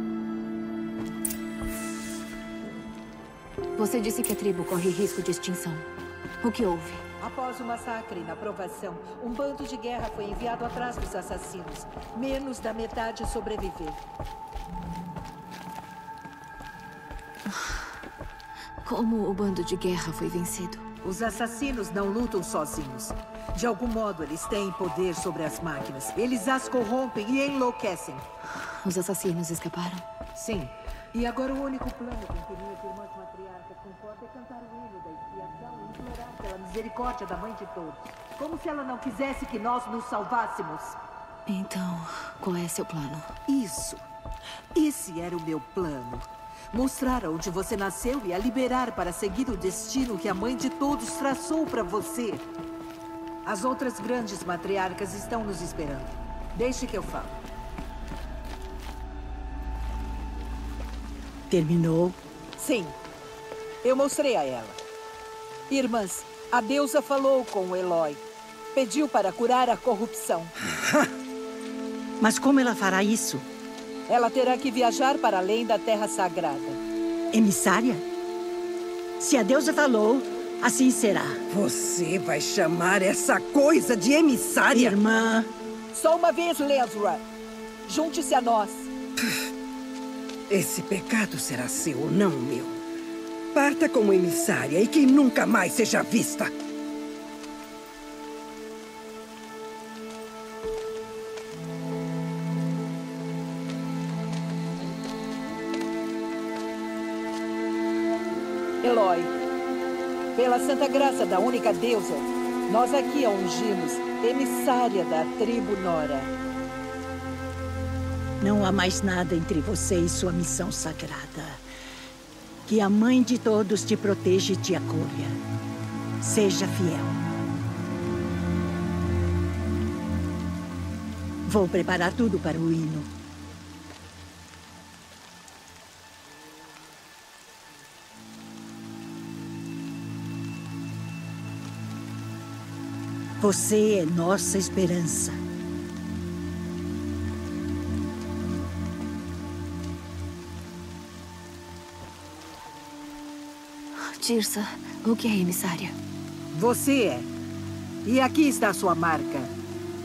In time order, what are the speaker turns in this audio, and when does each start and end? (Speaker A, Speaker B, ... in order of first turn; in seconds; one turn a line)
Speaker A: 3.8-5.8
Speaker A: 6.4-7.0
Speaker B: 7.2-14.0
Speaker A: 18.8-20.8
Speaker B: 21.0-28.2
Speaker A: 28.8-30.1
Speaker B: 30.4-41.0
Speaker A: 41.5-43.3
Speaker B: 43.5-44.1
Speaker B: 44.8-52.5
Speaker B: 53.5-57.4
Speaker C: 61.5-62.2
Speaker B: 62.6-63.0
Speaker B: 63.8-64.8
Speaker B: 65.7-68.2
Speaker B: 68.7-70.5
Speaker C: 72.2-73.5
Speaker B: 74.1-76.8
Speaker C: 77.3-78.0
Speaker C: 79.2-81.4
Speaker D: 81.5-85.2
Speaker C: 84.7-85.4
Speaker B: 85.9-87.2
Speaker B: 87.9-88.9
Speaker D: 90.5-92.8
Speaker D: 93.5-96.5
Speaker B: 108.8-109.3
Speaker B: 110.4-116.3
Speaker C: 118.4-121.6
Speaker C: 122.7-125.4
Speaker C: 126.2-127.2
Speaker C: 131.5-133.1
Speaker C: 143.4-145.4
Speaker A: 154.2-156.0
Speaker B: 156.5-157.3
Speaker B: 158.1-159.5